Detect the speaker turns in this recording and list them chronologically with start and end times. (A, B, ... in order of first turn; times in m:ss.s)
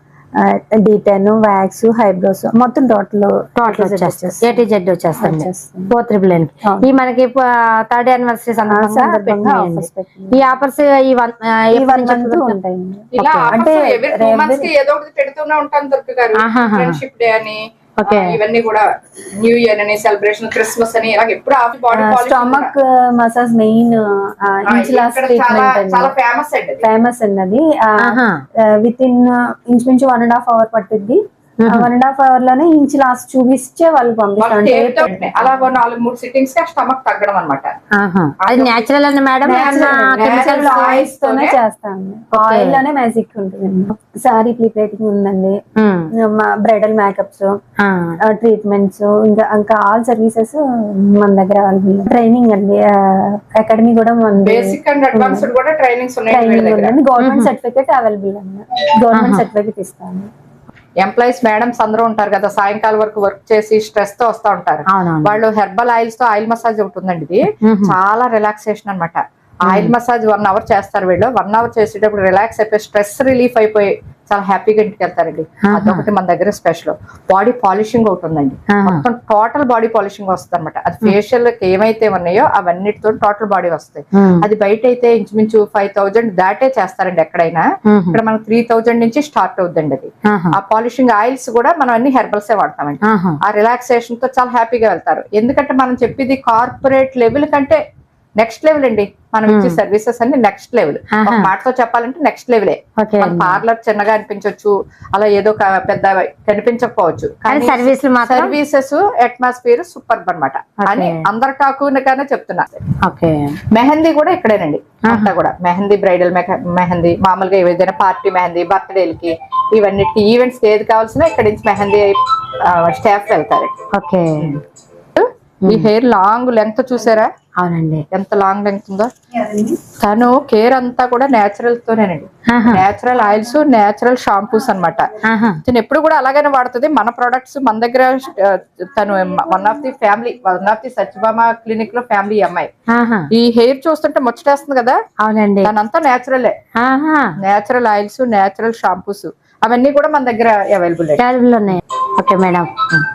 0:00.4-0:04.6 A
0:03.6-0:12.5 B
0:05.2-0:05.9 A
0:08.7-0:10.6 A
0:11.7-0:14.7 A
0:13.1-0:18.8 C
0:16.4-0:17.0 B
0:18.0-0:18.3 B
0:19.4-0:22.7 C
0:21.9-0:26.1 A
0:24.6-0:26.8 C
0:26.8-0:35.6 A
0:28.0-0:28.4 B
0:31.6-0:31.9 B
0:34.4-0:37.7 C
0:38.0-0:41.0 B
0:38.4-0:38.9 C
0:39.4-0:45.6 A
0:39.4-0:41.6 C
0:42.3-0:42.8 B
0:45.8-0:46.1 B
0:46.2-0:47.5 A
0:47.8-0:48.2 B
0:48.3-0:55.5 A
0:54.4-0:57.0 C
0:56.3-1:00.3 A
0:57.2-0:57.5 B
0:59.1-0:59.4 B
1:01.0-1:37.8 C
1:04.9-1:05.4 B
1:07.6-1:07.9 B
1:09.7-1:09.9 B
1:15.6-1:16.0 B
1:18.7-1:19.0 B
1:24.2-1:24.4 B
1:27.9-1:28.2 B
1:30.3-1:30.5 B
1:33.0-1:33.4 B
1:38.4-1:52.8 C
1:39.5-1:39.8 B
1:41.1-1:41.5 B
1:43.0-1:43.6 B
1:47.4-1:48.5 B
1:50.8-1:51.2 B
1:53.0-1:53.6 B
1:53.7-2:02.2 C
2:02.7-2:03.7 C
2:03.9-2:04.6 B
2:05.2-2:07.3 C
2:07.6-2:08.0 B
2:08.1-2:09.1 C
2:09.3-2:09.8 A
2:10.0-2:15.1 C
2:12.5-2:12.8 B
2:15.3-2:15.6 B
2:15.6-2:22.7 C
2:22.9-2:23.2 B
2:23.3-2:25.0 C
2:25.2-2:25.7 B
2:25.6-2:26.5 C
2:26.8-2:27.2 B
2:27.4-2:31.8 C
2:31.2-2:32.8 B